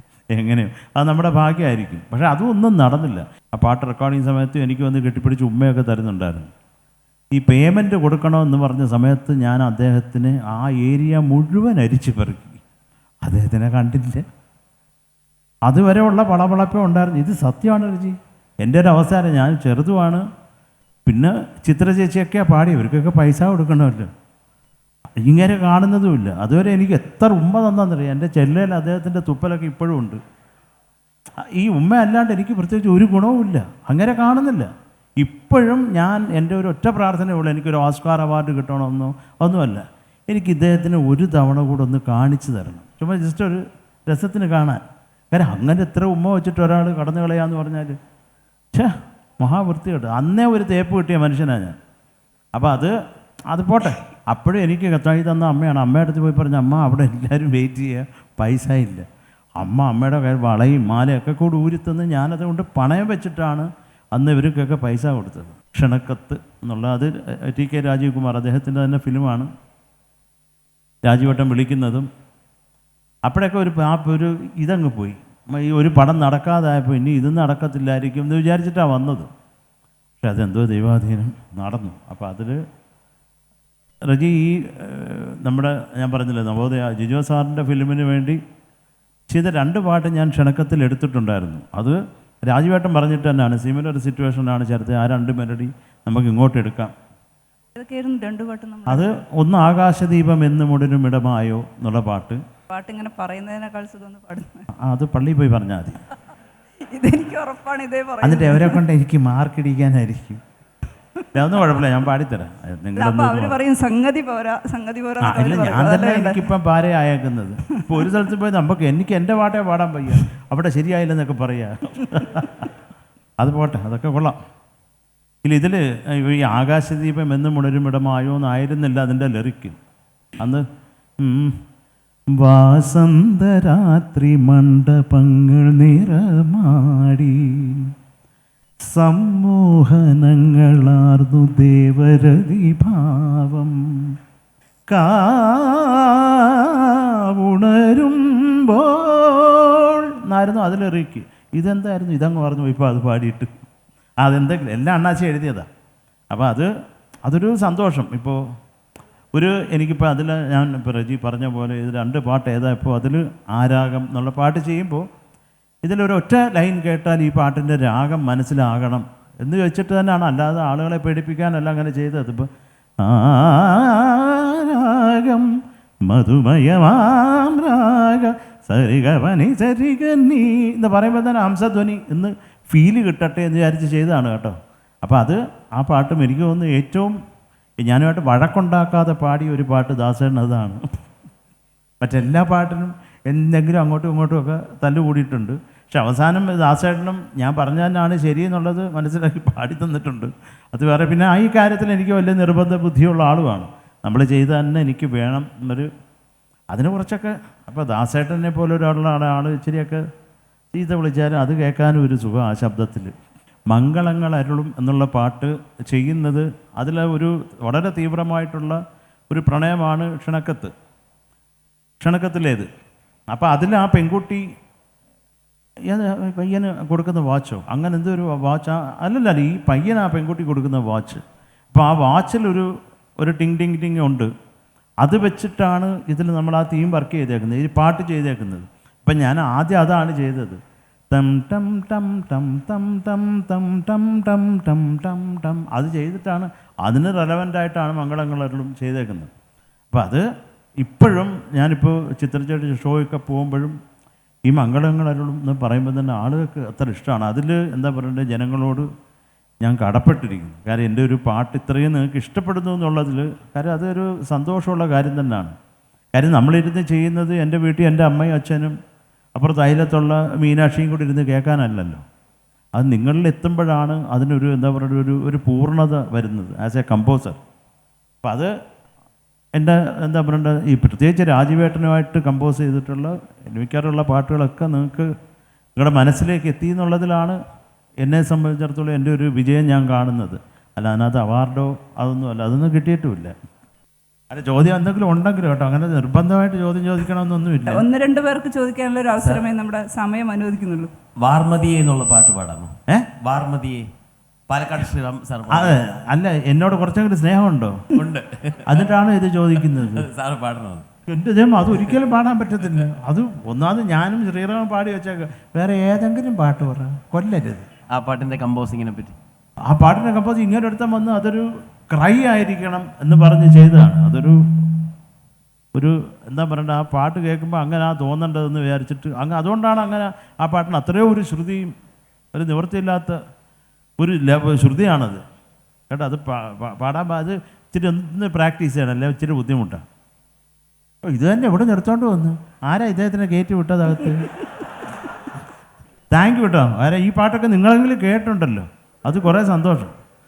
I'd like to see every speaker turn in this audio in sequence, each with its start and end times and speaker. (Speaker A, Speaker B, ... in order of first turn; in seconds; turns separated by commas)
Speaker A: 0.3-6.5, Speaker A: 7.3-12.6, Speaker A: 13.2-14.2, Speaker A: 15.7-20.2, Speaker A: 21.1-24.1, Speaker A: 25.2-30.2, Speaker A: 31.5-34.7, Speaker A: 35.2-48.0, Speaker A: 48.7-51.8, Speaker A: 52.5-52.9, Speaker A: 53.5-59.0, Speaker A: 59.6-69.5, Speaker A: 71.0-72.1, Speaker A: 73.2-79.3, Speaker A: 80.2-82.6, Speaker A: 84.1-88.4, Speaker A: 89.3-96.9, Speaker B: 97.7-99.2, Speaker A: 98.9-102.4, Speaker B: 102.7-104.7, Speaker A: 104.8-106.0, Speaker B: 106.9-108.8, Speaker A: 108.2-110.4, Speaker A: 111.3-113.6, Speaker B: 113.0-116.4, Speaker A: 115.2-122.7, Speaker A: 123.4-124.3, Speaker A: 125.4-129.8, Speaker A: 131.2-131.6, Speaker A: 132.3-137.9, Speaker A: 138.8-144.1, Speaker A: 144.9-153.5, Speaker A: 154.2-155.7, Speaker A: 156.3-156.7, Speaker A: 157.2-158.4, Speaker A: 159.3-165.0, Speaker A: 165.8-172.5, Speaker A: 173.0-175.5, Speaker A: 176.1-187.1, Speaker A: 187.8-190.8, Speaker A: 192.0-205.9, Speaker A: 206.7-210.0, Speaker A: 210.7-213.1, Speaker A: 213.7-218.8, Speaker A: 219.3-220.7, Speaker A: 222.0-222.7, Speaker A: 223.3-224.4, Speaker A: 225.9-232.7, Speaker A: 233.2-234.3, Speaker A: 235.0-240.6, Speaker A: 241.1-249.3, Speaker A: 249.9-250.2, Speaker A: 250.8-253.8, Speaker A: 254.5-258.9, Speaker A: 259.6-265.5, Speaker A: 266.1-268.7, Speaker A: 269.4-272.0, Speaker A: 272.7-277.4, Speaker A: 278.2-278.5, Speaker A: 279.6-285.1, Speaker A: 285.8-287.4, Speaker A: 288.0-293.3, Speaker A: 294.3-297.9, Speaker B: 297.7-300.9, Speaker C: 299.2-299.5, Speaker C: 301.2-303.8, Speaker C: 304.5-305.8, Speaker A: 305.5-307.8, Speaker C: 307.9-308.9, Speaker A: 308.6-310.1, Speaker C: 309.7-310.9, Speaker A: 311.1-317.6, Speaker C: 317.9-319.1, Speaker A: 319.7-324.4, Speaker A: 325.7-331.7, Speaker A: 332.3-333.2, Speaker A: 334.0-335.2, Speaker A: 335.9-339.8, Speaker A: 341.0-344.3, Speaker A: 346.1-349.9